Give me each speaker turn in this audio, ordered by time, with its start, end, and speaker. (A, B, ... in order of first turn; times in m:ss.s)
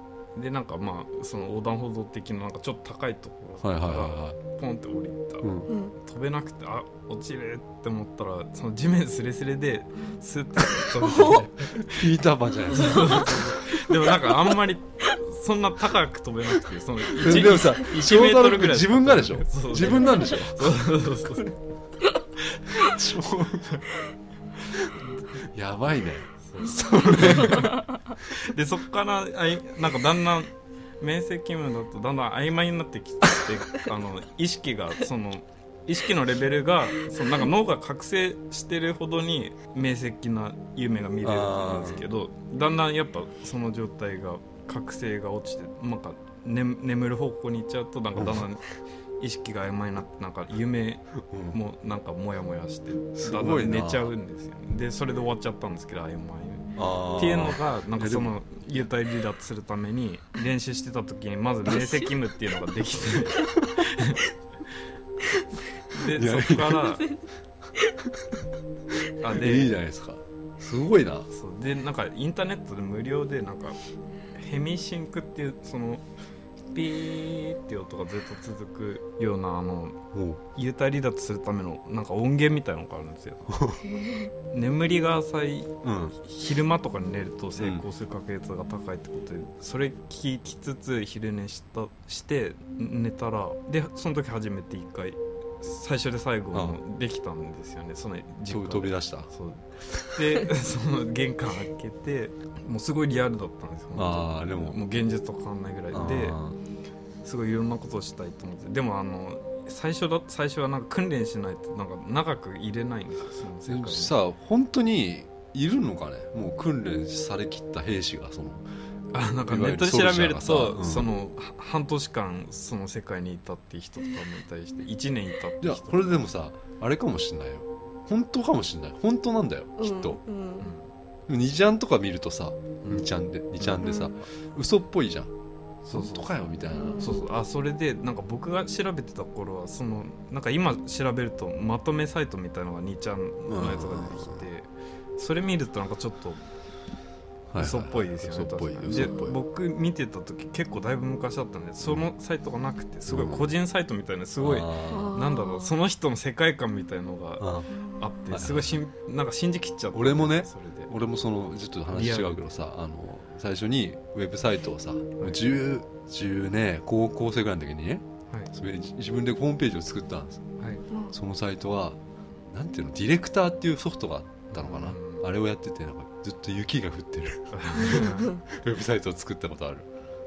0:00.3-0:12.0 A
0:03.6-0:04.4 B
0:05.4-0:05.7 B
0:05.7-0:05.9 C
0:11.0-0:11.5 C
0:11.6-0:13.8 B
0:12.7-0:21.6 A
0:12.8-0:13.3 C
0:17.2-0:20.8 B
0:22.7-0:23.8 B
0:24.7-0:27.8 B
0:26.4-0:48.6 A
0:41.2-0:42.0 B
0:48.1-0:48.4 B
0:49.2-1:04.2 A
0:51.2-0:51.6 B
0:53.2-0:54.1 B
0:56.8-0:58.9 B
1:01.8-1:02.1 C
1:05.9-1:07.0 A
1:06.1-1:06.9 B
1:06.9-1:07.2 C
1:09.2-1:09.7 A
1:09.2-1:11.3 B
1:11.3-1:13.8 A
1:14.3-1:16.0 A
1:16.7-1:20.0 A
1:20.1-1:20.4 B
1:20.5-1:23.5 A
1:23.5-1:23.8 B
1:23.8-1:24.3 C
1:24.5-1:39.6 A
1:25.8-1:26.2 B
1:27.6-1:27.8 B
1:36.5-1:36.8 B
1:38.5-1:39.3 B
1:40.1-1:46.4 A
1:43.9-1:44.8 B
1:45.9-1:46.6 B
1:47.2-1:54.1 A
1:53.7-1:58.6 B
1:59.1-2:05.9 A
1:59.5-2:01.1 B
2:05.6-2:10.2 B
2:09.8-2:10.7 C
2:10.6-2:10.9 A
2:11.3-2:15.3 B
2:12.8-2:13.1 A
2:13.6-2:13.9 A
2:13.8-2:14.2 C
2:15.8-2:16.4 A
2:15.9-2:17.1 B
2:16.7-2:17.3 C
2:17.0-2:26.4 A
2:23.5-2:24.5 B
2:27.5-2:29.4 B
2:27.6-2:40.9 A
2:33.1-2:33.5 B
2:34.4-2:35.1 B
2:34.9-2:35.7 C
2:37.4-2:37.7 B
2:37.7-2:38.4 C
2:38.3-2:38.8 B
2:39.9-2:50.4 B
2:41.9-2:42.6 A
2:45.2-2:45.6 A
2:50.6-2:50.8 A
2:51.1-2:52.0 B
2:52.5-2:59.9 B
2:54.5-2:55.2 A
2:57.5-2:58.4 A
2:57.9-2:58.4 C